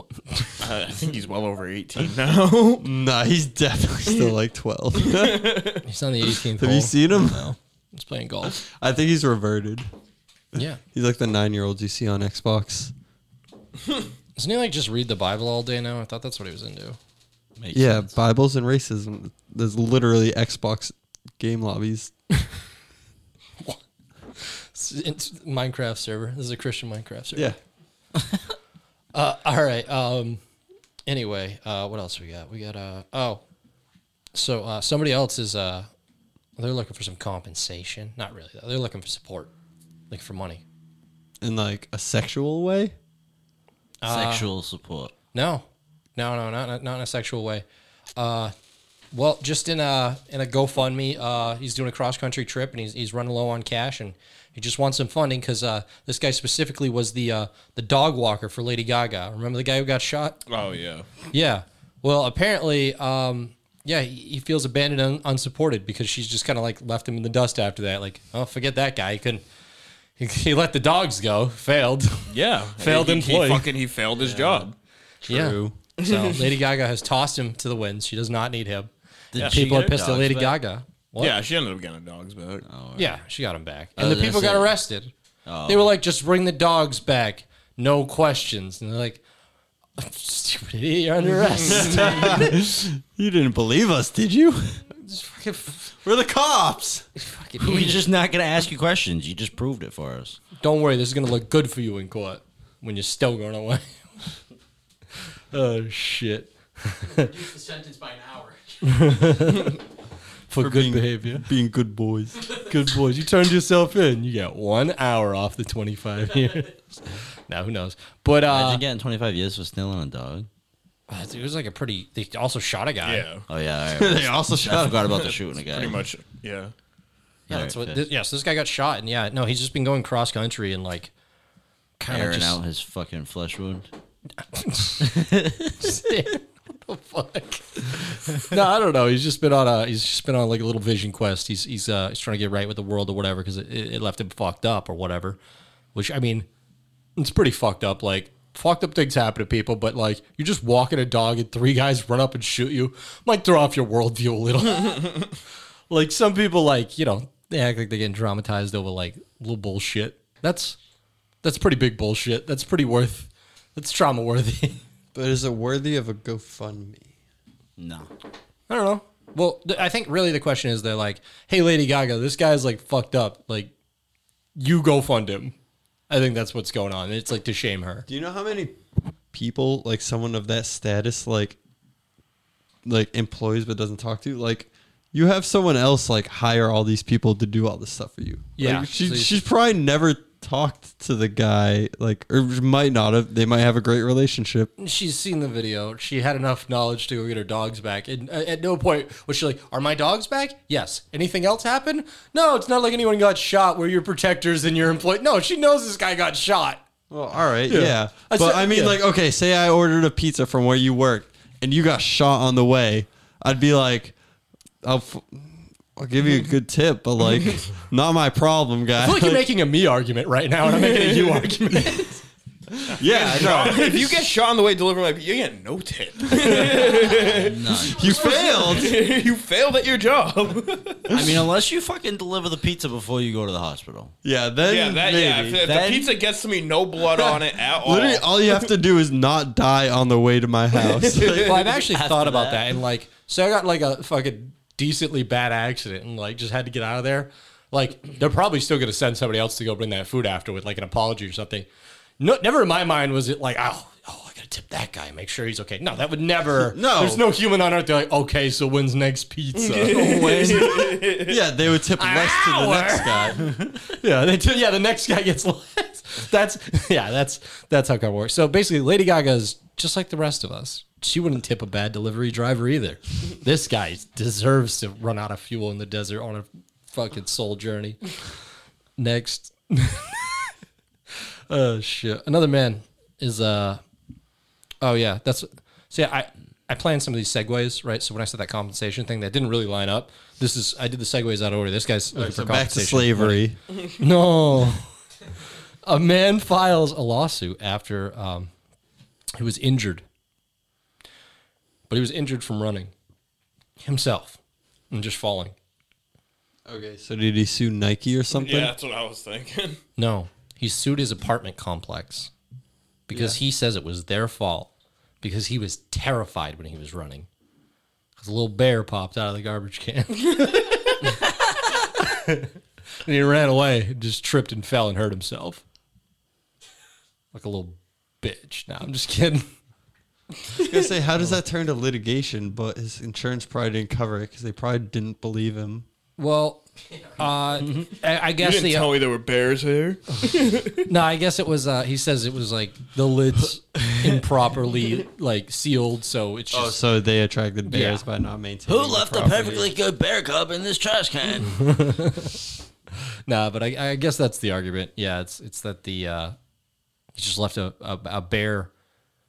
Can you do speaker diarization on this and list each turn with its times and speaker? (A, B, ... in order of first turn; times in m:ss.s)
0:00.6-0:02.8 A
0:02.8-0:05.7 B
0:05.1-0:05.8 A
0:05.8-0:08.6 C
0:06.6-0:07.5 B
0:08.5-0:09.9 B
0:10.6-0:10.8 C
0:10.9-0:12.9 B
0:14.4-0:17.0 C
0:17.6-0:18.1 D
0:17.7-0:22.2 B
0:24.4-0:27.5 C
0:29.1-0:30.4 C
0:31.1-0:33.4 C
0:34.3-0:35.9 C
0:36.6-0:39.5 C
0:40.1-0:40.6 C
0:41.4-0:42.9 B
0:44.0-0:44.5 C
0:44.1-0:45.1 D
0:45.3-0:47.6 C
0:48.2-0:48.5 C
0:49.1-1:00.4 C
1:00.5-1:01.1 A
1:01.3-1:09.4 C
1:10.2-1:13.7 C
1:12.3-1:14.8 A
1:15.2-1:15.8 B
1:15.3-1:21.4 C
1:16.1-1:16.3 A
1:19.3-1:20.6 D
1:21.2-1:22.6 A
1:22.7-1:23.2 D
1:23.0-1:25.1 C
1:24.0-1:24.8 D
1:25.5-1:25.9 D
1:25.7-1:29.2 C
1:30.0-1:32.6 C
1:31.6-1:34.9 B
1:35.0-1:35.8 C
1:36.0-1:37.1 B
1:37.2-1:38.0 C
1:37.6-1:40.4 D
1:40.6-1:43.8 C
1:45.5-1:47.1 C
1:47.0-1:49.1 E
1:48.8-1:49.8 C
1:50.5-1:51.5 C
1:50.6-1:52.4 B
1:52.7-1:58.8 C
1:58.5-2:00.5 D
2:01.1-2:03.3 C
2:03.0-2:03.5 A
2:03.5-2:06.0 D
2:03.9-2:05.9 B
2:05.7-2:06.7 A
2:07.5-2:11.1 C
2:07.5-2:08.0 D
2:12.0-2:12.6 C
2:12.1-2:13.9 D
2:14.5-2:15.2 C
2:15.0-2:15.7 D
2:15.8-2:25.4 C
2:26.0-2:26.5 C
2:27.2-2:35.2 C
2:35.9-2:40.8 C
2:41.4-2:44.8 C
2:45.1-2:47.1 B
2:47.8-2:48.1 D
2:48.7-2:53.7 C
2:54.6-2:55.6 C
2:56.1-2:58.1 C
2:58.1-2:58.8 B
2:59.3-3:01.6 B
3:02.8-3:14.7 B
3:08.6-3:09.4 C
3:14.8-3:26.8 C
3:27.1-3:34.2 B
3:27.7-3:29.0 C
3:34.8-3:39.5 B
3:39.0-3:42.2 C
3:40.8-3:41.4 A
3:42.8-3:44.3 B
3:43.0-3:47.6 A
3:46.5-3:46.8 B
3:47.3-3:48.2 D
3:47.9-3:49.0 B
3:48.2-3:51.2 A
3:51.1-3:54.1 D
3:54.2-3:55.7 B
3:54.6-3:58.3 A
3:55.6-3:56.1 D
3:57.8-4:01.6 B
4:01.0-4:01.5 A
4:01.4-4:11.7 C
4:01.8-4:02.7 D
4:12.2-4:20.8 C
4:16.6-4:17.2 B
4:19.6-4:21.4 A
4:19.9-4:23.8 B
4:22.0-4:38.2 C
4:39.0-4:40.5 C
4:41.5-4:43.8 C
4:44.8-4:53.4 C
4:52.1-4:53.6 B
4:54.0-4:54.9 C
4:55.9-4:58.5 C
4:59.4-5:00.0 C
5:01.9-5:02.9 C
5:03.8-5:04.4 C
5:04.9-5:05.6 C
5:06.7-5:08.7 B
5:08.3-5:09.8 A
5:10.0-5:12.3 C
5:13.1-5:14.7 C
5:13.1-5:13.4 B
5:15.2-5:17.3 C
5:18.2-5:21.3 C
5:22.0-5:22.5 C
5:23.0-5:25.6 C
5:27.3-5:29.5 C
5:30.6-5:35.9 B
5:36.2-5:36.6 C
5:37.2-5:39.0 C
5:38.4-5:40.8 A
5:40.8-5:46.8 C
5:46.5-5:49.7 B
5:47.7-5:48.0 C
5:48.7-5:51.6 D
5:51.6-5:52.3 C
5:53.3-5:56.4 C
5:57.2-5:58.7 C